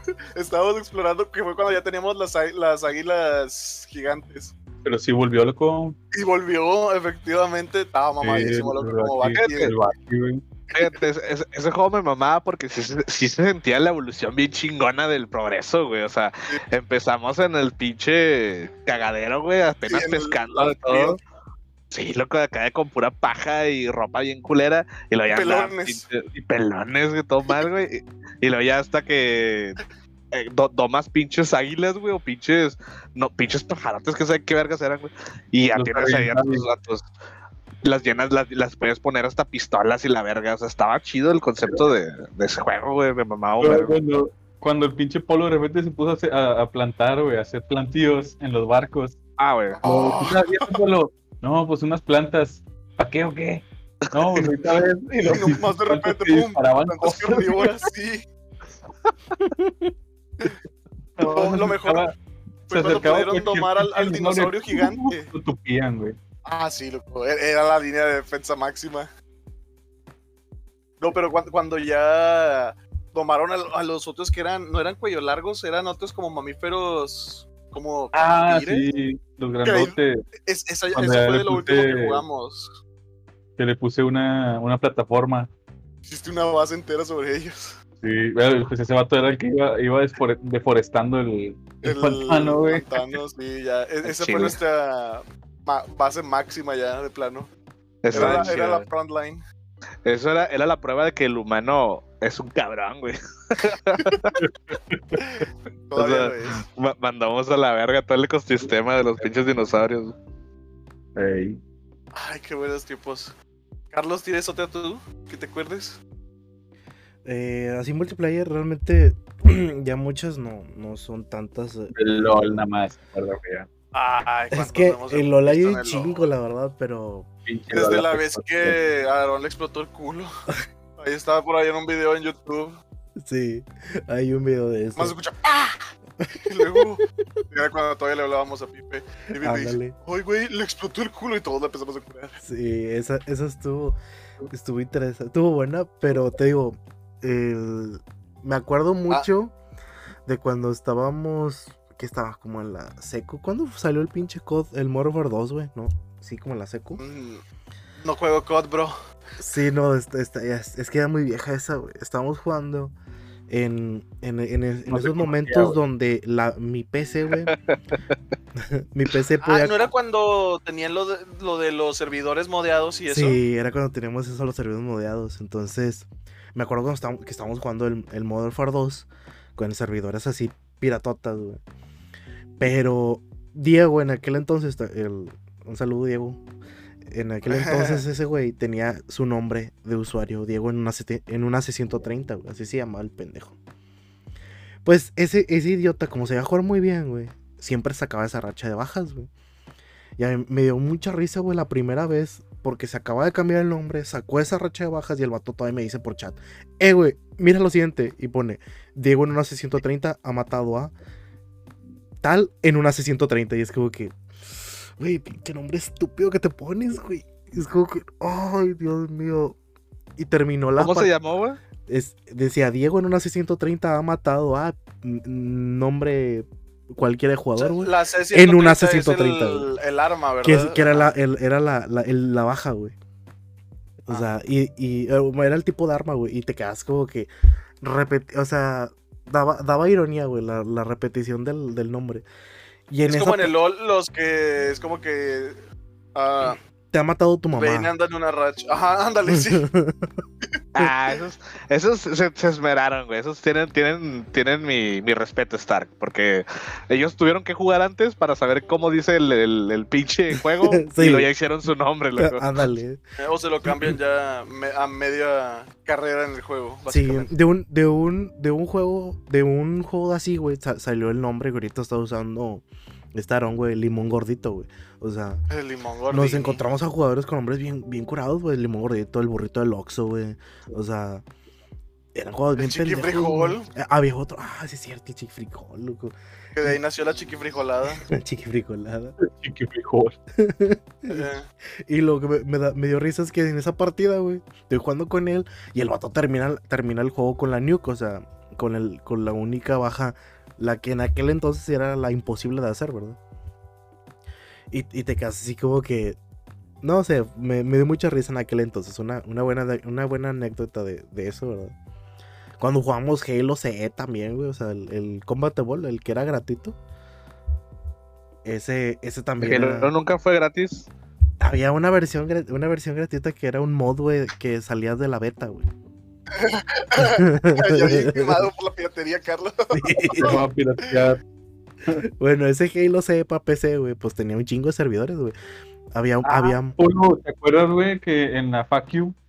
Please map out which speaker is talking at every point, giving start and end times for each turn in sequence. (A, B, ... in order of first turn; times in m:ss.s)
0:00.3-0:04.5 A
0:04.8-0:06.0 B
0:06.1-0:09.8 A
0:08.2-0:10.4 B
0:09.4-0:09.7 C
0:10.7-0:21.2 C
0:19.9-0:21.2 A
0:21.9-0:29.8 C
0:25.3-0:26.0 A
0:30.3-0:37.1 C
0:35.8-0:36.7 B
0:37.8-0:44.0 C
0:43.6-0:49.2 B
0:49.4-0:49.8 C
0:49.8-0:50.8 A
0:49.8-0:57.8 B
0:54.2-0:54.5 C
0:55.2-0:58.2 A
0:59.6-0:59.9 D
1:01.2-1:02.1 B
1:01.2-1:02.1 A
1:02.7-1:05.3 A
1:02.7-1:06.2 B
1:06.4-1:09.1 A
1:11.0-1:18.8 A
1:18.1-1:20.2 B
1:19.6-1:22.8 A
1:20.9-1:22.2 B
1:23.6-1:25.5 B
1:26.1-1:27.8 A
1:28.0-1:33.1 B
1:31.8-1:37.5 A
1:34.0-1:34.6 C
1:38.0-1:38.9 C
1:38.1-1:38.5 B
1:38.1-1:39.4 A
1:40.0-1:44.4 C
1:44.4-1:45.2 B
1:45.2-1:46.6 A
1:45.9-1:50.2 C
1:51.2-1:51.6 B
1:52.1-1:53.4 A
1:53.9-1:56.0 A
1:57.2-2:02.6 D
2:01.9-2:03.7 B
2:03.9-2:06.3 A
2:04.5-2:07.3 D
2:07.5-2:08.8 B
2:07.7-2:10.3 A
2:11.0-2:12.8 A
2:13.2-2:15.2 D
2:15.0-2:15.9 A
2:16.2-2:17.0 D
2:16.4-2:22.4 A
2:19.4-2:20.0 D
2:22.4-2:24.0 D
2:24.5-2:29.6 D
2:30.3-2:37.0 D
2:37.0-2:37.4 A
2:38.0-2:39.0 A
2:39.4-2:42.9 D
2:43.5-2:47.6 D
2:44.9-2:45.8 B
2:47.5-2:47.8 C
2:48.6-2:49.9 D
2:49.4-2:53.4 A
2:53.1-3:01.6 D
3:02.6-3:06.4 D
3:07.1-3:13.6 D
3:07.4-3:08.0 A
3:14.8-3:19.3 D
3:20.2-3:30.9 D
3:32.2-3:39.6 D
3:40.2-3:41.1 D
3:40.8-3:41.6 C
3:41.9-3:49.7 D
3:47.6-3:51.1 A
3:50.4-3:52.9 D
3:54.0-3:57.3 D
3:57.8-4:02.2 D
4:02.9-4:03.5 D
4:03.1-4:05.6 A
4:06.2-4:06.6 A
4:06.9-4:07.9 D
4:07.6-4:09.6 A
4:09.3-4:10.1 D
4:10.8-4:22.4 C
4:20.4-4:21.3 D
4:22.2-4:23.0 D
4:23.2-4:27.3 A
4:23.6-4:24.0 D
4:26.9-4:35.4 D
4:35.5-4:36.6 A
4:36.1-4:41.2 D
4:42.1-4:46.8 D
4:42.6-4:43.7 A
4:46.6-4:48.0 A
4:48.0-4:49.2 D
4:49.2-4:50.2 B
4:50.4-4:51.3 D
4:51.1-4:51.5 A
4:51.9-5:03.2 D
5:04.7-5:06.2 D
5:06.8-5:11.8 D
5:12.6-5:16.8 D
5:18.4-5:19.9 D
5:19.4-5:20.9 C
5:21.4-5:25.7 D
5:26.4-5:30.4 A
5:27.0-5:28.5 D
5:29.7-5:30.4 D
5:30.1-5:31.2 B
5:32.0-5:35.4 D
5:35.9-5:36.8 D
5:36.2-5:39.2 B